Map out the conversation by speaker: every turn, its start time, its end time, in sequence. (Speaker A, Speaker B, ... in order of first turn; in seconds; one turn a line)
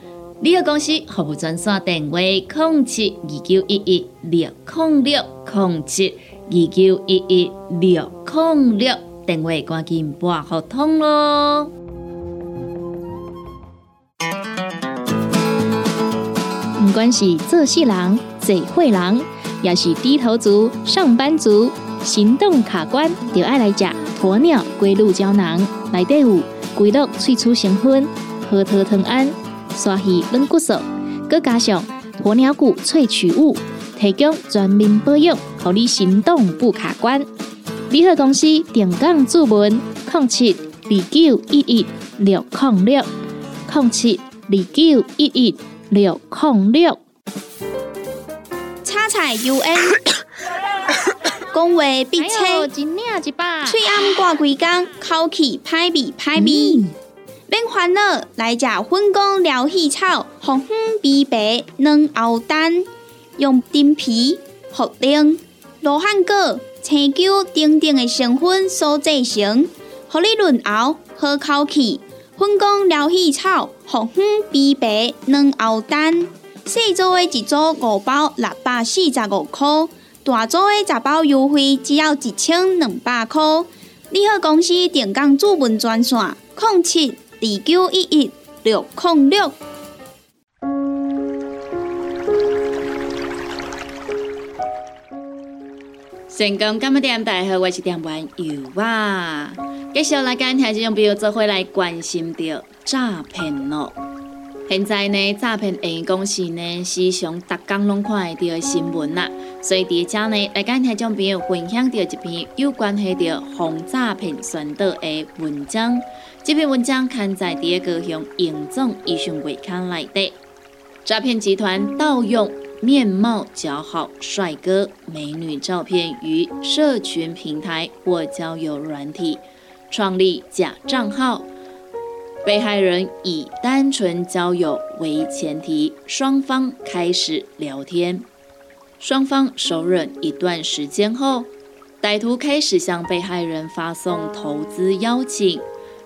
Speaker A: 0.4-11.7
Speaker B: 16.8-37.2
Speaker B: 37.9-43.1
Speaker B: 43.7-47.0
Speaker C: 48.8-50.0
Speaker C: 51.5-52.7
Speaker B: 52.2-53.8
Speaker C: 53.6-56.9
Speaker B: 56.4-56.9
Speaker C: 57.5-89.5
Speaker A: 96.3-104.0
Speaker A: 104.7-120.4
Speaker A: 121.0-131.5
Speaker A: 132.4-138.3
Speaker A: 139.0-145.7